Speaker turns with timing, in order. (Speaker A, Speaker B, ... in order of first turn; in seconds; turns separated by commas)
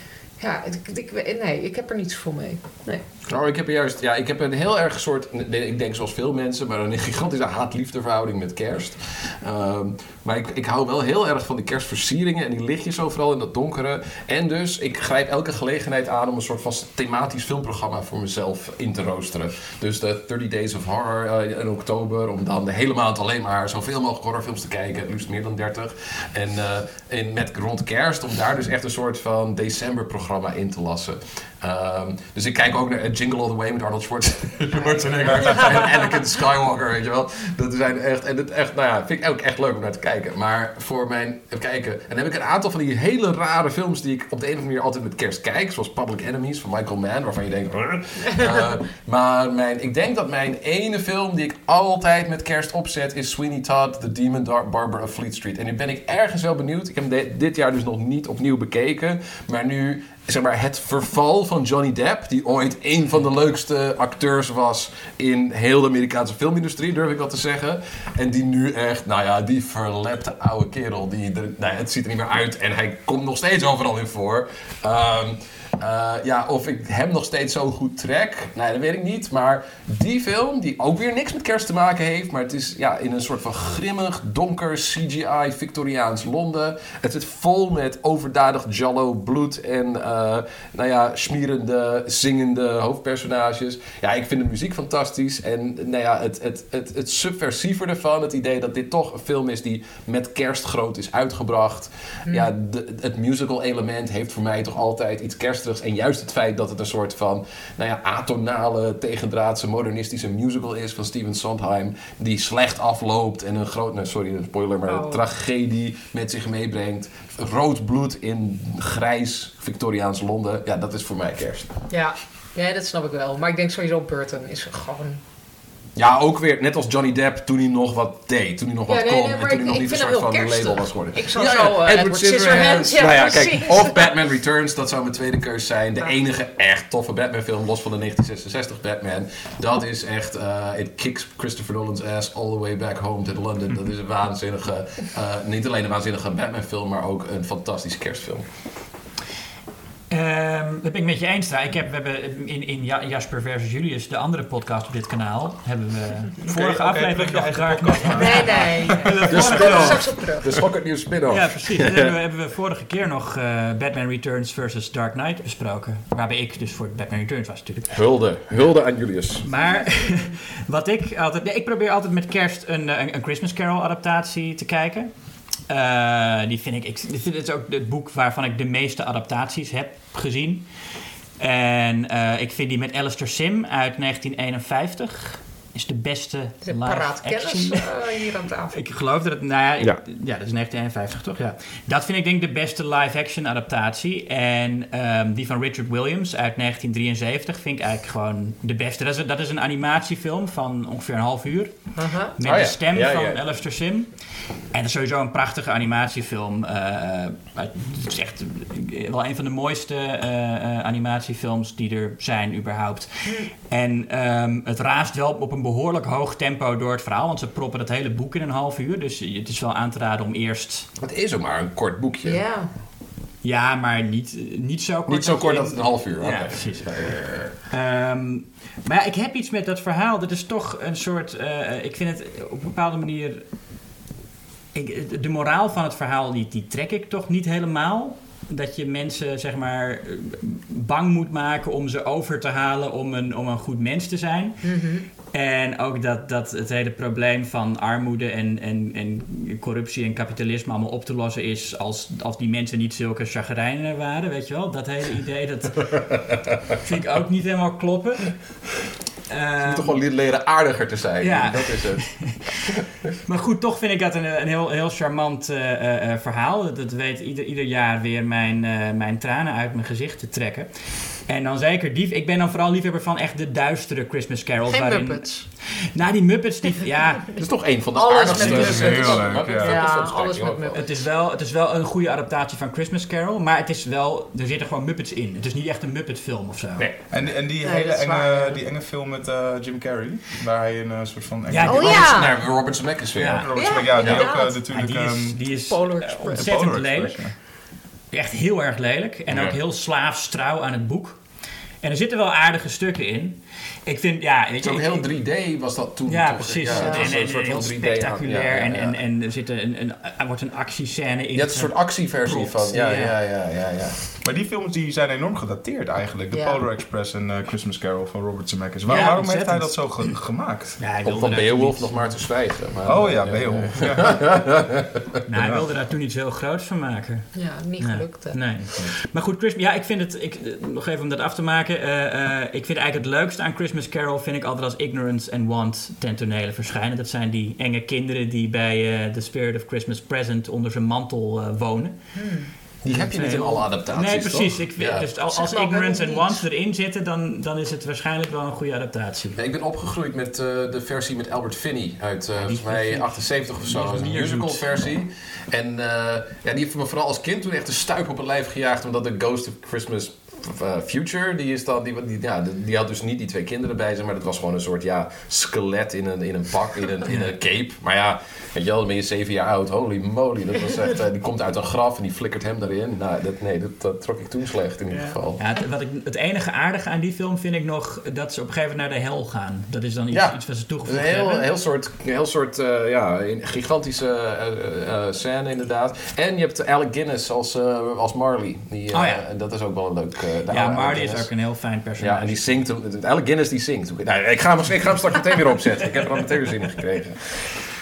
Speaker A: 0.4-3.0, Speaker B: 3.3-121.7, Speaker A: 114.9-115.2, Speaker A: 121.9-125.2, Speaker B: 126.0-148.4, Speaker A: 128.9-134.0, Speaker C: 150.1-160.0, Speaker D: 156.4-159.3, Speaker A: 158.1-160.5, Speaker B: 159.2-162.1, Speaker C: 161.3-167.9, Speaker B: 167.9-169.4, Speaker C: 169.4-175.1, Speaker C: 175.7-180.7, Speaker C: 181.4-187.9, Speaker A: 186.6-188.8, Speaker C: 188.7-201.7, Speaker A: 201.9-202.3, Speaker C: 202.4-204.1, Speaker B: 202.4-203.4, Speaker C: 204.7-220.9, Speaker B: 221.0-222.4, Speaker A: 222.2-222.7, Speaker C: 223.4-233.4, Speaker B: 225.1-227.5, Speaker C: 234.7-244.7, Speaker A: 244.6-245.1, Speaker C: 245.3-258.4, Speaker C: 259.3-260.0, Speaker B: 259.6-262.1, Speaker C: 261.2-262.5, Speaker C: 263.2-277.3, Speaker A: 274.7-275.5, Speaker B: 277.4-280.8, Speaker A: 277.9-280.8, Speaker D: 278.4-279.8, Speaker C: 280.7-286.9, Speaker D: 287.1-292.2, Speaker A: 287.6-288.6, Speaker C: 291.5-292.4, Speaker A: 291.6-292.3, Speaker B: 291.7-294.2, Speaker C: 293.1-297.3, Speaker D: 293.3-295.4, Speaker A: 293.5-294.6, Speaker A: 295.7-296.5, Speaker D: 296.3-297.3, Speaker C: 298.1-301.2, Speaker B: 299.3-299.6, Speaker C: 301.8-305.0, Speaker B: 304.6-309.0, Speaker C: 306.1-313.1, Speaker A: 306.7-307.1, Speaker B: 311.3-314.0, Speaker D: 314.2-320.8, Speaker A: 316.3-316.6, Speaker C: 318.9-320.1, Speaker C: 320.8-322.1, Speaker B: 321.0-325.0, Speaker D: 322.8-324.4, Speaker C: 325.3-341.9, Speaker D: 325.3-325.7, Speaker A: 327.3-328.4, Speaker A: 342.1-342.5, Speaker B: 342.8-345.1, Speaker C: 342.9-349.4, Speaker A: 345.3-346.4, Speaker B: 349.4-375.4, Speaker C: 352.4-354.6, Speaker C: 367.1-367.3, Speaker C: 374.9-381.5, Speaker B: 380.1-391.3, Speaker C: 388.9-389.2, Speaker C: 390.5-392.5, Speaker B: 392.0-397.2